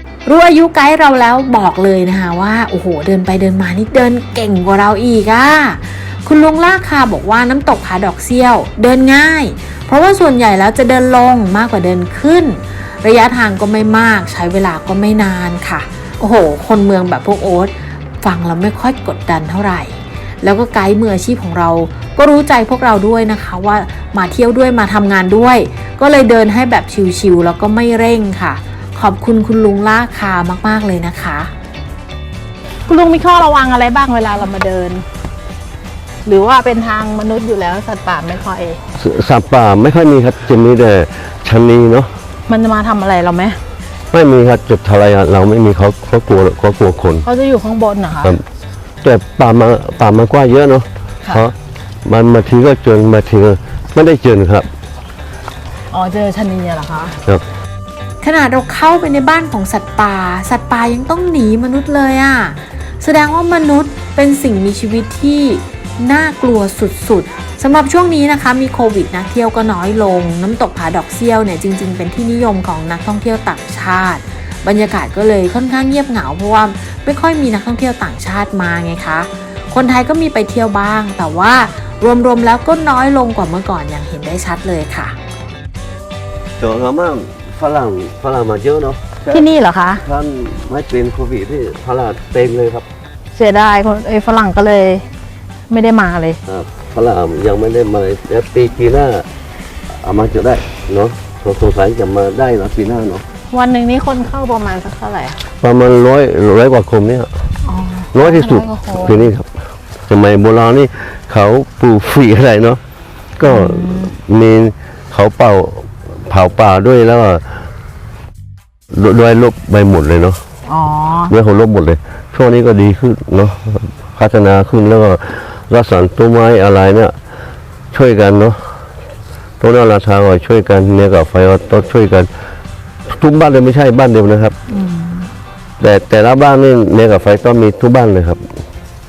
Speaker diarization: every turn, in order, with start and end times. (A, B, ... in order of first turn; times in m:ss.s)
0:00.3-0:31.5 A
0:32.9-0:35.0 B
0:36.2-0:38.8 B
0:39.0-0:42.1 C
0:42.5-0:43.6 B
0:44.1-0:47.2 C
0:47.2-0:48.4 B
0:49.0-0:54.7 C
0:51.2-0:51.5 B
0:55.9-0:57.2 B
0:58.2-1:25.2 A
1:26.6-1:29.5 C
1:29.3-1:30.0 B
1:30.0-1:32.8 C
1:33.3-1:35.1 B
1:35.7-1:36.4 B
1:36.4-1:39.3 C
1:40.0-1:43.2 C
1:43.5-1:45.4 B
1:45.6-1:47.3 C
1:47.6-1:49.3 B
1:48.1-1:49.5 C
1:50.1-1:52.8 C
1:53.4-1:57.5 C
1:53.5-1:54.1 B
1:58.9-2:00.4 C
2:00.6-2:01.3 B
2:01.3-2:07.1 C
2:07.9-2:08.7 C
2:09.6-2:12.3 C
2:13.1-2:14.5 C
2:14.7-2:15.3 B
2:15.8-2:18.4 C